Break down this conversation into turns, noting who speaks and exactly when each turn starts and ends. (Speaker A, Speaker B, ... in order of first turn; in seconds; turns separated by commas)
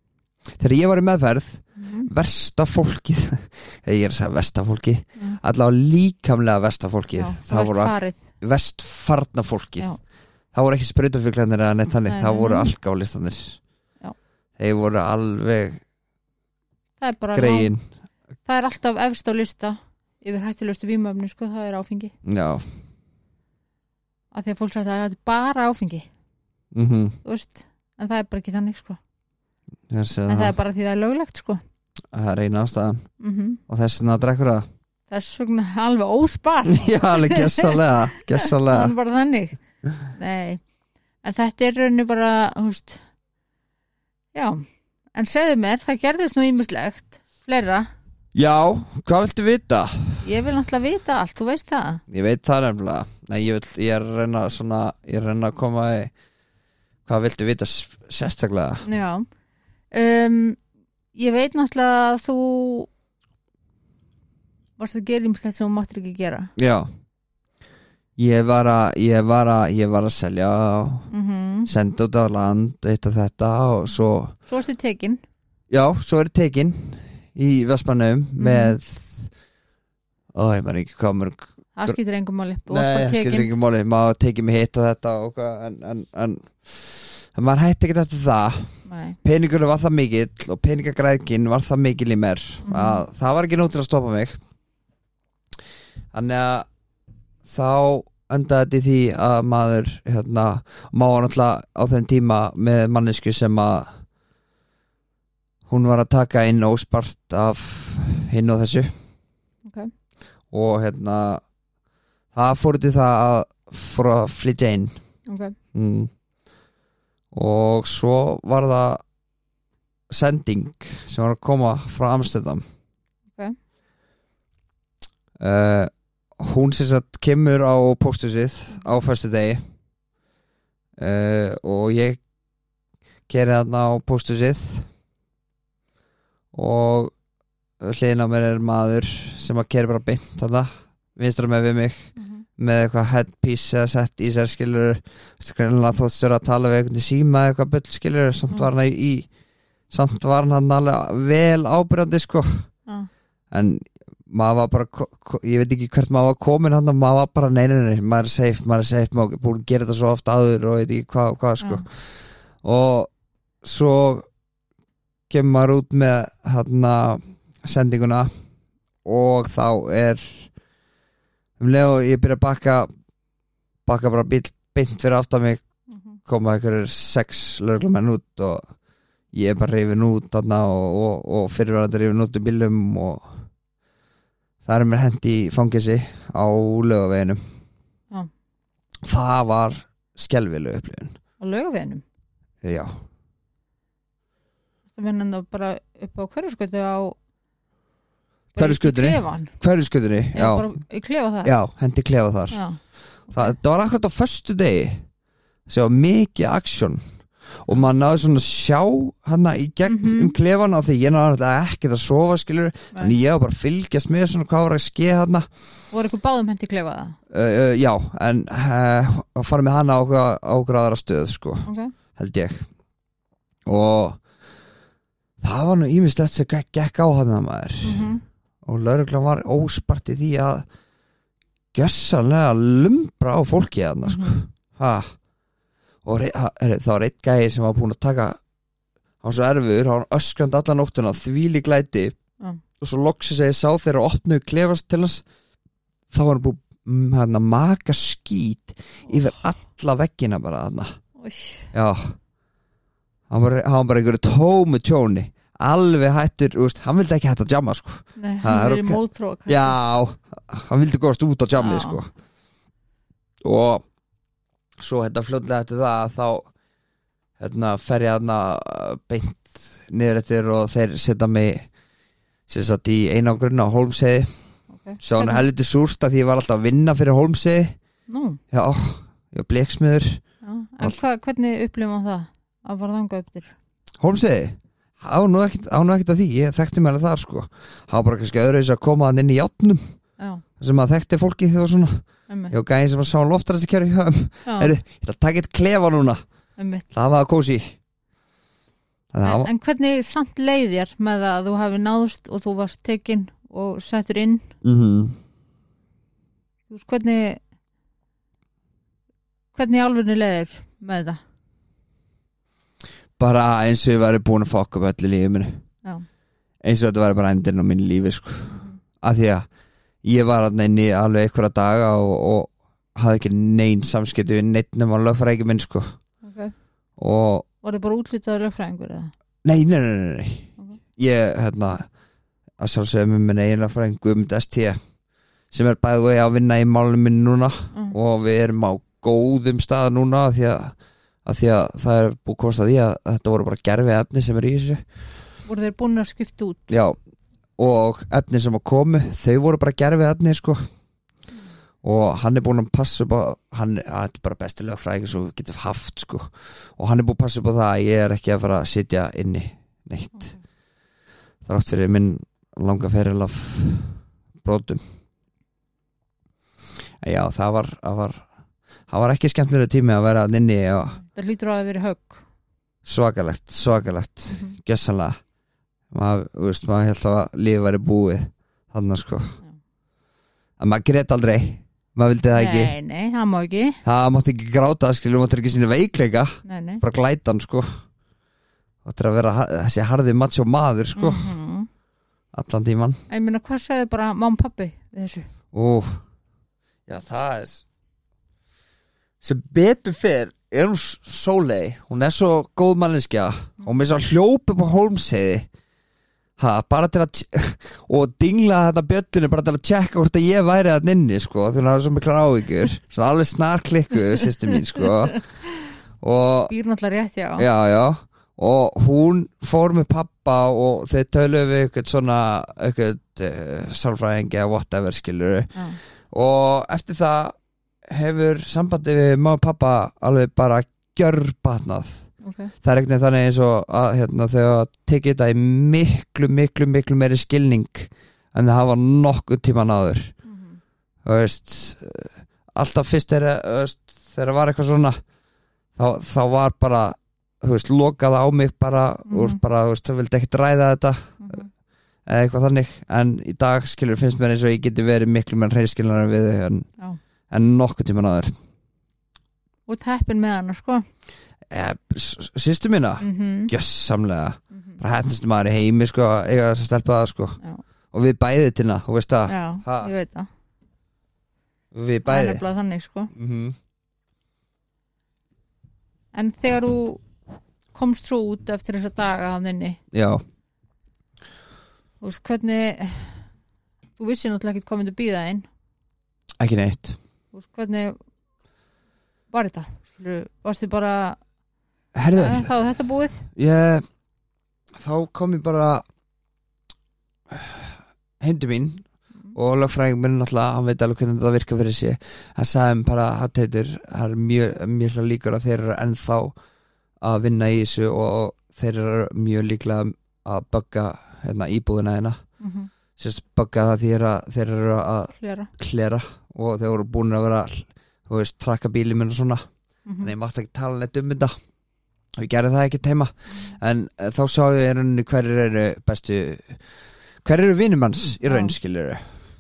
Speaker A: 0.6-9.9, Speaker B: 1.8-2.1, Speaker B: 7.2-8.2, Speaker A: 10.5-13.6, Speaker B: 12.1-12.7, Speaker A: 14.6-15.8, Speaker B: 17.0-17.7, Speaker A: 17.3-17.8, Speaker B: 18.4-22.1, Speaker A: 22.2-22.6, Speaker B: 24.3-26.1, Speaker A: 26.7-27.2, Speaker B: 27.2-29.0, Speaker A: 29.9-30.6, Speaker B: 30.3-31.6, Speaker A: 32.1-33.0, Speaker B: 33.2-33.6, Speaker A: 33.7-34.6, Speaker B: 35.1-40.6, Speaker A: 36.7-38.9, Speaker B: 41.2-43.0, Speaker B: 44.3-44.6, Speaker B: 45.1-47.9, Speaker A: 48.3-50.2, Speaker B: 50.2-52.0, Speaker A: 52.1-56.1, Speaker A: 57.0-58.8, Speaker B: 58.8-59.2, Speaker B: 59.9-60.6, Speaker B: 61.1-62.9, Speaker B: 64.8-66.5, Speaker A: 66.6-66.9, Speaker A: 68.2-71.1, Speaker B: 71.1-71.7, Speaker A: 71.7-74.3, Speaker B: 74.5-75.2, Speaker A: 75.7-79.3, Speaker B: 78.4-78.8, Speaker A: 80.3-81.9, Speaker B: 81.8-83.5, Speaker A: 82.7-94.4, Speaker B: 88.8-89.2, Speaker B: 92.6-93.0, Speaker A: 96.1-96.7, Speaker A: 97.4-103.9, Speaker A: 105.7-108.9, Speaker A: 110.5-111.4, Speaker A: 112.3-114.9, Speaker B: 115.3-115.5, Speaker A: 115.7-116.1, Speaker A: 117.3-119.0, Speaker A: 120.1-122.6, Speaker A: 125.4-129.6, Speaker A: 131.0-132.2, Speaker A: 133.3-134.9, Speaker A: 136.5-137.1, Speaker A: 137.8-142.0, Speaker B: 142.2-142.4, Speaker A: 142.6-149.3, Speaker A: 149.9-152.6, Speaker A: 153.5-161.9, Speaker A: 162.6-163.1, Speaker A: 163.6-164.2, Speaker A: 165.3-168.3, Speaker A: 169.0-170.5, Speaker A: 171.6-172.9, Speaker A: 173.8-175.6, Speaker A: 176.2-178.6, Speaker A: 179.3-183.3, Speaker A: 184.6-187.4, Speaker A: 189.0-191.1, Speaker B: 191.4-192.0, Speaker A: 192.6-192.9, Speaker B: 194.9-197.2, Speaker B: 198.5-199.5, Speaker A: 198.6-200.7, Speaker B: 200.3-201.5, Speaker A: 201.4-202.6, Speaker B: 202.5-202.8, Speaker A: 203.3-205.0, Speaker A: 205.7-207.0, Speaker A: 207.6-215.4, Speaker B: 209.8-210.3, Speaker B: 215.9-217.2, Speaker A: 217.3-222.6, Speaker B: 221.7-221.9, Speaker A: 223.7-224.2, Speaker A: 225.4-228.1, Speaker B: 227.8-228.2, Speaker A: 228.6-230.6, Speaker A: 231.7-235.1, Speaker B: 234.0-234.4, Speaker A: 236.0-238.4, Speaker A: 239.2-242.2, Speaker A: 242.8-245.2, Speaker A: 246.1-250.9, Speaker B: 251.2-251.7, Speaker A: 251.7-252.1, Speaker A: 253.3-262.1, Speaker B: 258.2-259.8, Speaker B: 261.6-262.0, Speaker A: 263.4-263.8, Speaker A: 264.8-266.5, Speaker A: 267.4-271.6, Speaker A: 272.5-274.3, Speaker B: 274.7-275.4, Speaker A: 275.0-277.8, Speaker B: 278.1-278.4, Speaker A: 278.5-280.2, Speaker B: 280.4-283.5, Speaker A: 284.0-289.8, Speaker A: 290.6-296.2, Speaker B: 292.3-292.5, Speaker B: 294.4-294.7, Speaker B: 296.6-296.8, Speaker A: 296.9-297.7, Speaker A: 299.1-299.5, Speaker B: 299.2-304.5, Speaker A: 304.6-305.2, Speaker B: 306.7-307.4, Speaker B: 309.5-311.2, Speaker A: 313.2-315.6, Speaker A: 316.6-319.4, Speaker B: 318.5-318.8, Speaker A: 320.0-325.9, Speaker B: 326.2-326.5, Speaker A: 327.0-327.4, Speaker B: 327.6-329.1, Speaker A: 329.4-331.9, Speaker A: 332.6-334.8, Speaker A: 335.5-340.7, Speaker A: 341.2-344.8, Speaker B: 345.4-346.7, Speaker A: 346.7-346.9, Speaker A: 347.6-350.6, Speaker A: 351.8-360.3, Speaker A: 361.4-364.8, Speaker A: 367.0-368.2, Speaker A: 368.9-371.0, Speaker B: 371.0-372.2, Speaker A: 372.8-375.2, Speaker B: 374.3-374.5, Speaker A: 375.9-379.4, Speaker A: 380.6-382.7, Speaker B: 382.3-383.8, Speaker A: 383.8-387.7, Speaker B: 386.4-386.8, Speaker A: 388.8-391.3, Speaker B: 390.9-391.7, Speaker A: 392.3-393.0, Speaker B: 393.1-395.2, Speaker A: 395.5-396.0, Speaker A: 396.9-397.6, Speaker A: 399.2-405.5, Speaker A: 406.4-415.2, Speaker B: 414.8-415.2, Speaker A: 416.0-416.5, Speaker B: 416.5-417.5, Speaker A: 417.4-425.5, Speaker A: 426.1-427.3, Speaker A: 427.9-432.0, Speaker B: 432.2-432.5, Speaker A: 432.6-440.1, Speaker B: 440.2-440.6, Speaker A: 441.0-445.0, Speaker A: 445.8-451.4, Speaker B: 449.1-449.4, Speaker B: 451.2-451.5, Speaker A: 452.1-456.7, Speaker A: 457.3-458.3, Speaker B: 459.7-460.8, Speaker A: 461.5-467.4, Speaker B: 463.0-463.5, Speaker A: 467.9-469.9, Speaker B: 469.3-470.3, Speaker A: 471.7-472.4, Speaker B: 472.1-473.1, Speaker A: 473.1-473.6, Speaker B: 476.1-477.0, Speaker B: 477.7-479.8, Speaker A: 479.9-480.2, Speaker B: 482.0-483.2, Speaker B: 484.0-485.4, Speaker A: 486.4-487.0, Speaker B: 487.3-488.0, Speaker B: 489.3-491.2, Speaker A: 491.9-492.5, Speaker B: 492.1-493.3, Speaker A: 493.3-493.8, Speaker A: 494.7-495.8, Speaker A: 497.3-498.8, Speaker A: 499.3-506.3, Speaker A: 507.0-512.2, Speaker B: 512.4-512.7, Speaker A: 513.0-519.4, Speaker B: 515.1-515.5, Speaker B: 519.9-520.1, Speaker A: 520.0-521.3, Speaker A: 522.1-526.6, Speaker A: 527.2-529.0, Speaker B: 528.2-528.5